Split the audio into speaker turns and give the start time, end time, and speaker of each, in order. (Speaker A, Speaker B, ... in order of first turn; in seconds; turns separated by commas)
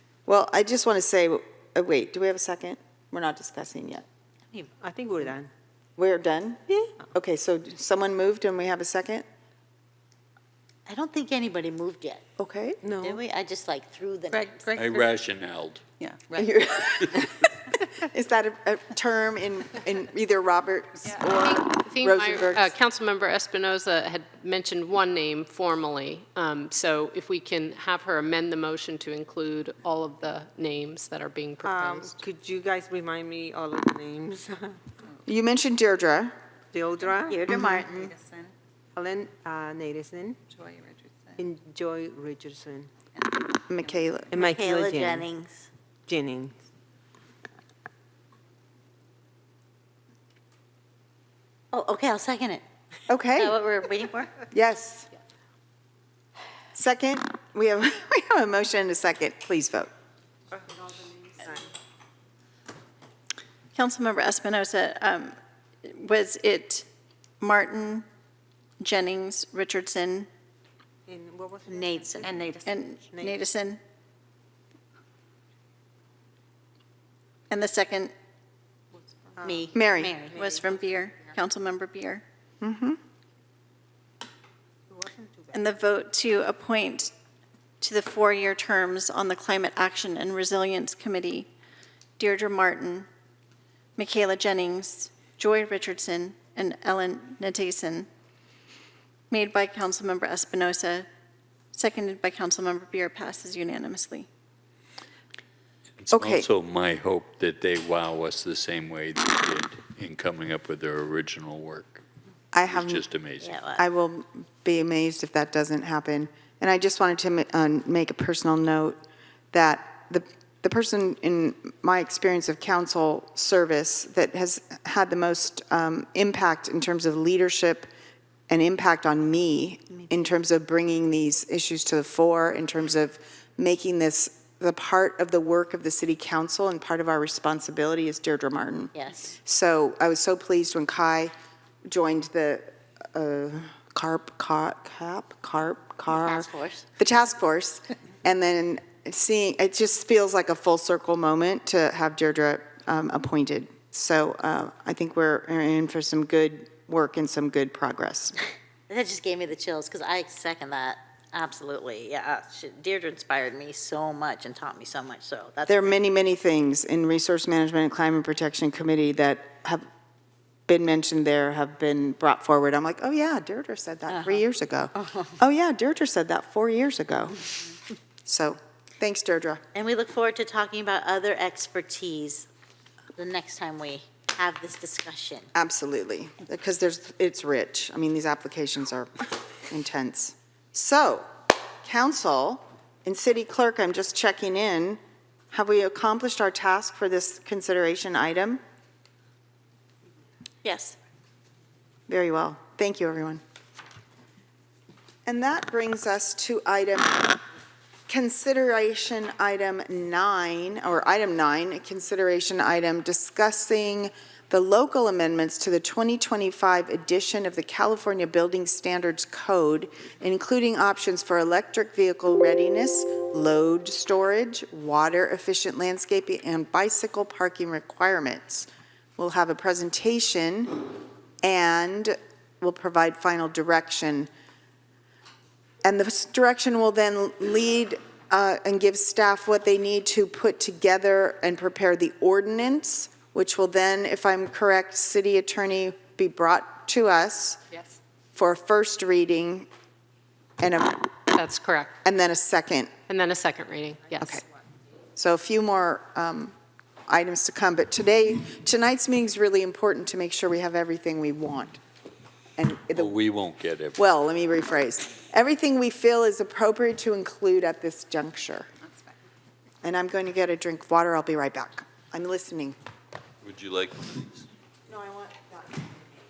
Speaker A: 0.2-4.0, Speaker B: 4.8-5.5, Speaker A: 6.0-9.2, Speaker B: 6.7-6.9, Speaker C: 10.9-12.2, Speaker A: 12.4-12.8, Speaker B: 12.8-13.2, Speaker C: 13.0-14.7, Speaker B: 14.3-15.1, Speaker D: 14.7-15.9, Speaker B: 16.0-16.3, Speaker A: 16.3-22.7, Speaker E: 21.2-32.2, Speaker B: 31.6-34.8, Speaker A: 35.3-36.3, Speaker B: 36.7-37.4, Speaker C: 37.2-38.2, Speaker B: 38.9-40.4, Speaker B: 41.4-42.9, Speaker A: 43.5-44.3, Speaker B: 44.3-45.2, Speaker C: 44.3-45.7, Speaker B: 46.1-46.6, Speaker C: 51.7-52.6, Speaker A: 53.1-53.5, Speaker C: 53.4-54.4, Speaker A: 54.5-55.1, Speaker A: 56.7-59.9, Speaker B: 60.5-61.7, Speaker F: 63.7-66.9, Speaker F: 67.4-68.0, Speaker F: 68.8-70.3, Speaker B: 71.1-73.3, Speaker C: 71.7-72.5, Speaker F: 72.6-73.8, Speaker F: 77.5-78.1, Speaker B: 79.4-79.7, Speaker C: 79.4-80.5, Speaker A: 79.7-80.1, Speaker F: 80.3-82.2, Speaker A: 82.6-83.0, Speaker B: 84.9-85.5, Speaker F: 85.5-87.1, Speaker F: 87.8-91.5, Speaker F: 92.2-93.1, Speaker F: 94.0-98.1, Speaker F: 99.3-101.0, Speaker F: 101.7-104.3, Speaker D: 106.0-112.0, Speaker A: 106.1-106.5, Speaker A: 112.5-113.0, Speaker D: 112.7-113.6, Speaker C: 113.4-113.8, Speaker A: 113.8-119.0, Speaker A: 119.5-127.9, Speaker A: 128.5-141.3, Speaker C: 138.9-139.3, Speaker A: 141.9-158.4, Speaker C: 146.1-146.8, Speaker C: 158.9-166.0, Speaker A: 165.7-169.8, Speaker A: 170.7-177.4, Speaker C: 174.1-174.4, Speaker C: 174.9-175.4, Speaker A: 178.2-179.6, Speaker C: 179.7-182.5, Speaker C: 183.2-185.5, Speaker A: 185.5-191.3, Speaker A: 191.8-195.0, Speaker A: 195.5-198.6, Speaker F: 200.6-201.0, Speaker A: 202.1-203.4, Speaker A: 205.2-207.4, Speaker A: 208.1-230.8, Speaker A: 231.4-234.3, Speaker A: 235.8-247.6, Speaker E: 247.7-248.0, Speaker A: 248.3-249.7, Speaker A: 250.6-251.1, Speaker E: 251.3-251.9, Speaker A: 252.0-252.9, Speaker E: 253.1-254.4, Speaker A: 255.2-256.6, Speaker A: 257.1-261.8, Speaker A: 262.6-263.3, Speaker D: 262.9-264.0, Speaker A: 263.9-268.7, Speaker A: 269.8-272.8, Speaker D: 273.4-274.5, Speaker A: 274.9-276.0